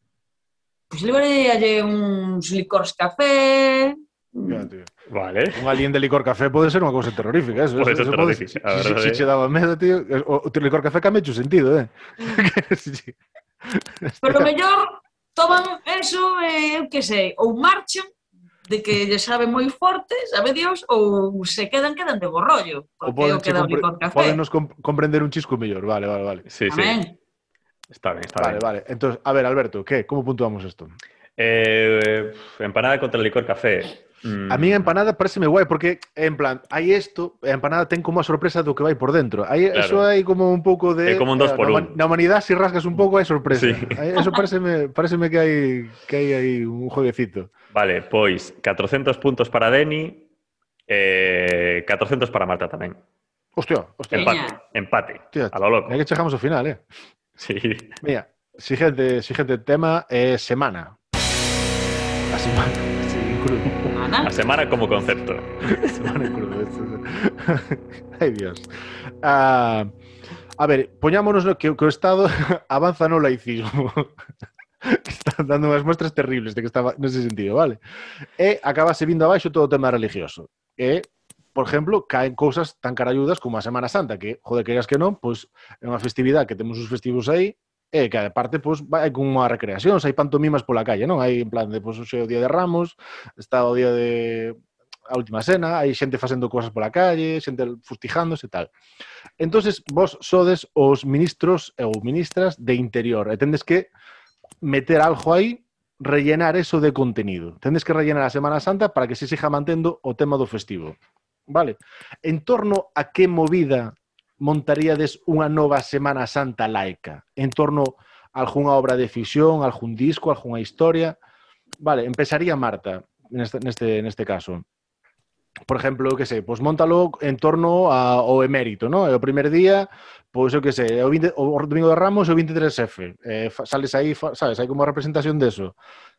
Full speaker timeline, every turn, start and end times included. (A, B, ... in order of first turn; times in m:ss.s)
0:00.9-0:04.7 A
0:04.5-0:04.9 B
0:05.1-0:05.7 C
0:05.5-0:14.5 B
0:07.8-0:09.2 C
0:14.2-0:18.1 A
0:18.7-0:24.4 A
0:23.0-0:26.4 B
0:26.5-0:27.0 C
0:26.7-0:27.2 A
0:27.9-0:28.6 C
0:28.4-0:30.9 B
0:31.4-0:34.9 C
0:34.5-0:47.5 B
0:39.7-0:40.1 C
0:41.1-0:42.0 C
0:43.5-0:44.0 C
0:47.7-0:50.2 C
0:50.9-0:53.0 C
0:53.6-0:54.4 B
0:54.1-0:54.6 A
0:54.1-0:56.0 C
0:55.3-0:56.8 B
0:57.4-0:58.0 C
0:58.0-1:01.0 B
1:02.3-1:03.9 B
1:03.9-1:04.3 A
1:04.2-1:06.1 C
1:05.7-1:08.7 B
1:09.2-1:09.9 B
1:10.6-1:14.1 B
1:14.8-1:17.8 B
1:18.4-1:38.7 B
1:39.4-1:43.9 B
1:44.6-1:51.0 B
1:51.5-2:01.2 B
2:01.8-2:04.6 B
2:05.7-2:15.8 B